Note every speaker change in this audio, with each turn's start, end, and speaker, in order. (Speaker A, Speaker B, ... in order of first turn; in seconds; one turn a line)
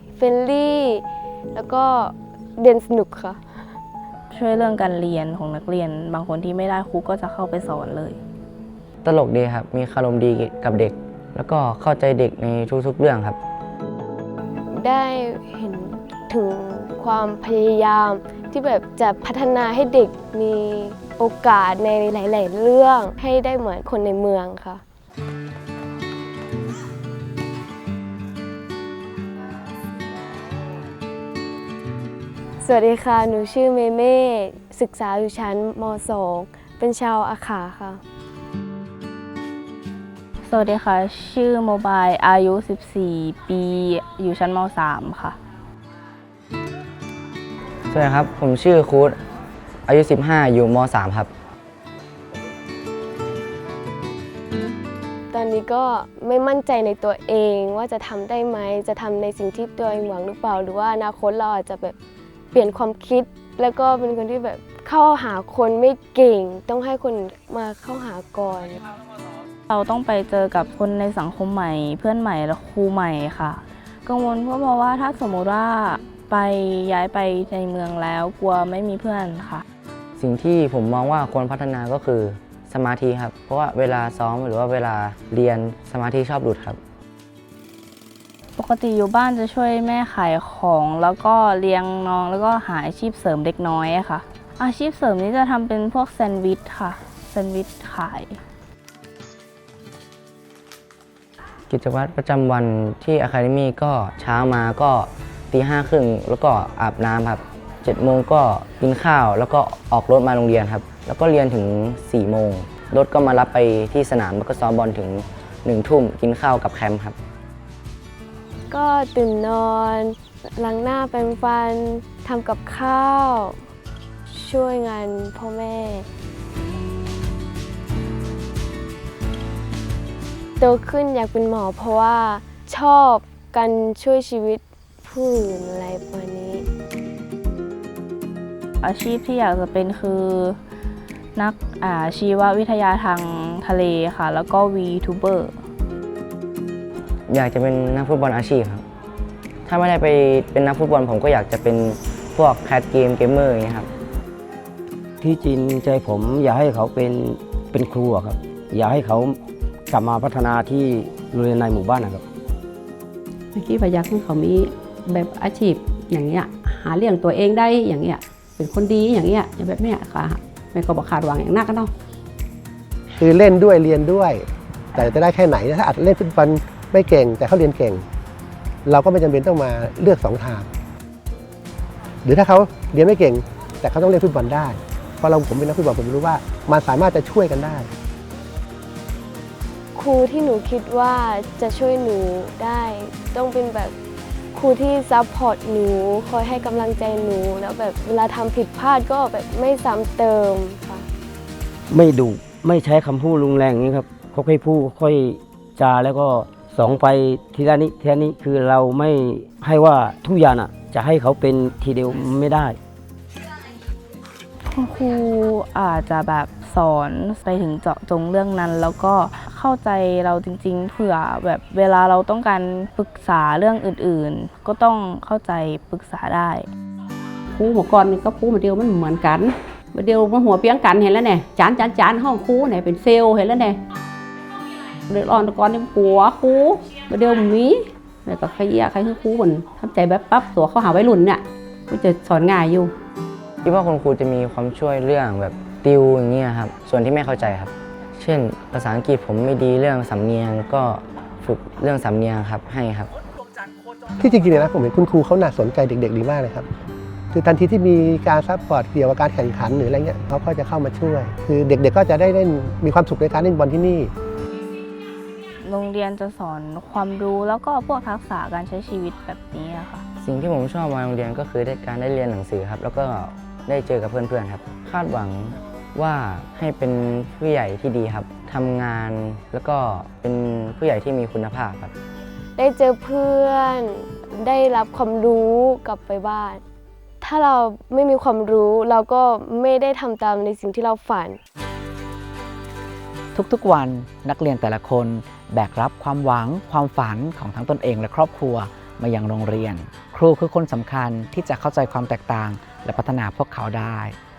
Speaker A: 0.2-1.0
Speaker A: 1.5-3.4
Speaker B: 4.3-8.2
Speaker C: 9.0-13.4
Speaker A: 14.7-24.8
Speaker A: 32.6-38.0
Speaker B: 40.5-45.4
Speaker C: 47.9-49.2
Speaker C: 49.9-51.3
Speaker A: 55.3-62.0
Speaker A: 62.5-68.8
Speaker B: 69.7-79.6
Speaker C: 80.2-86.8
Speaker B: 88.6-98.4
Speaker C: 101.7-117.2
Speaker A: 118.7-123.6
Speaker A: 124.3-126.1
Speaker A: 130.6-136.7
Speaker B: 138.8-140.6
Speaker B: 141.4-145.6
Speaker C: 147.3-148.8
Speaker C: 149.7-153.9
Speaker D: 155.2-162.2
Speaker E: 163.5-171.9
Speaker F: 173.2-178.0
Speaker F: 178.9-180.7
Speaker F: 182.2-187.9
Speaker A: 189.9-193.9
Speaker A: 194.5-201.1
Speaker D: 201.9-212.8
Speaker B: 214.7-226.7
Speaker E: 227.5-233.8
Speaker E: 235.1-242.9
Speaker C: 243.6-253.1
Speaker F: 254.2-256.7
Speaker F: 257.3-264.1
Speaker B: 265.6-270.0
Speaker C: 270.2-281.9
Speaker A: 282.6-286.6
Speaker A: 287.2-291.4
Speaker G: 293.3-304.2